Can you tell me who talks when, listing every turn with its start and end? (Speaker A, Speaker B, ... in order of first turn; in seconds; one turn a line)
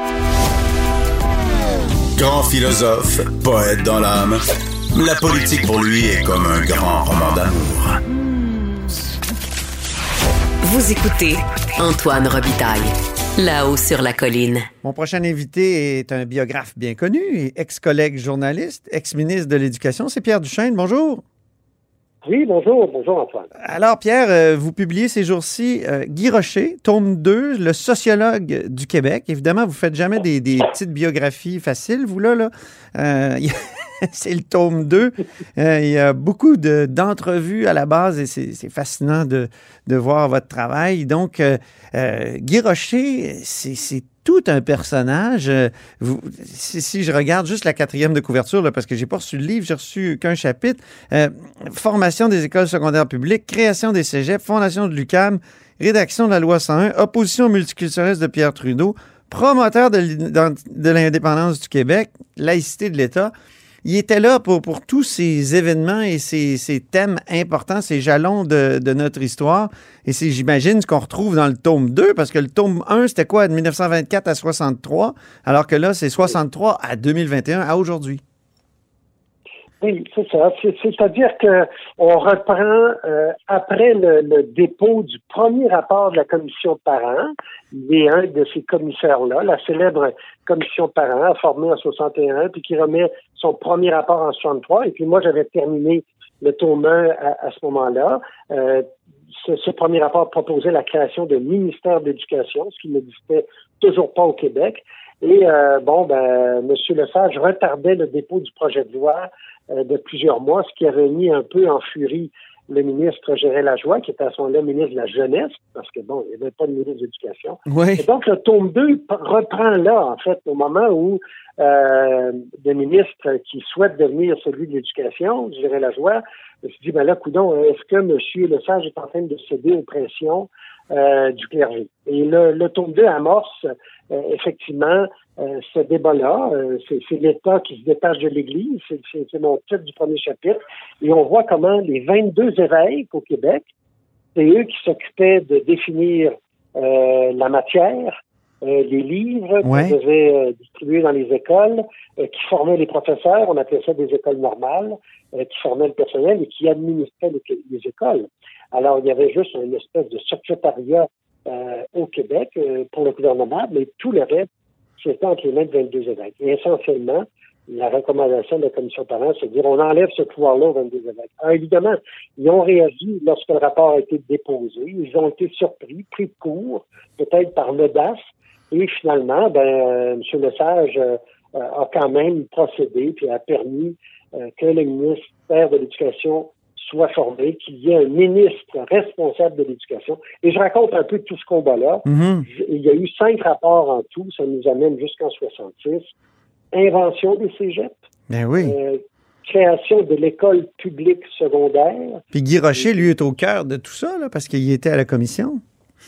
Speaker A: 2.1-8.0
Speaker B: 10.9-14.6
Speaker C: 14.8-21.2
Speaker D: 22.2-23.5
Speaker C: 23.6-63.3
Speaker C: 63.8-78.2
Speaker D: 79.8-98.9
Speaker D: 99.4-143.7
Speaker C: 117.7-118.0
Speaker D: 144.3-196.1
Speaker C: 149.6-149.9
Speaker C: 192.1-192.4
Speaker D: 196.7-198.0
Speaker C: 198.3-198.8
Speaker D: 198.6-202.2
Speaker C: 202.3-205.6
Speaker D: 202.8-203.0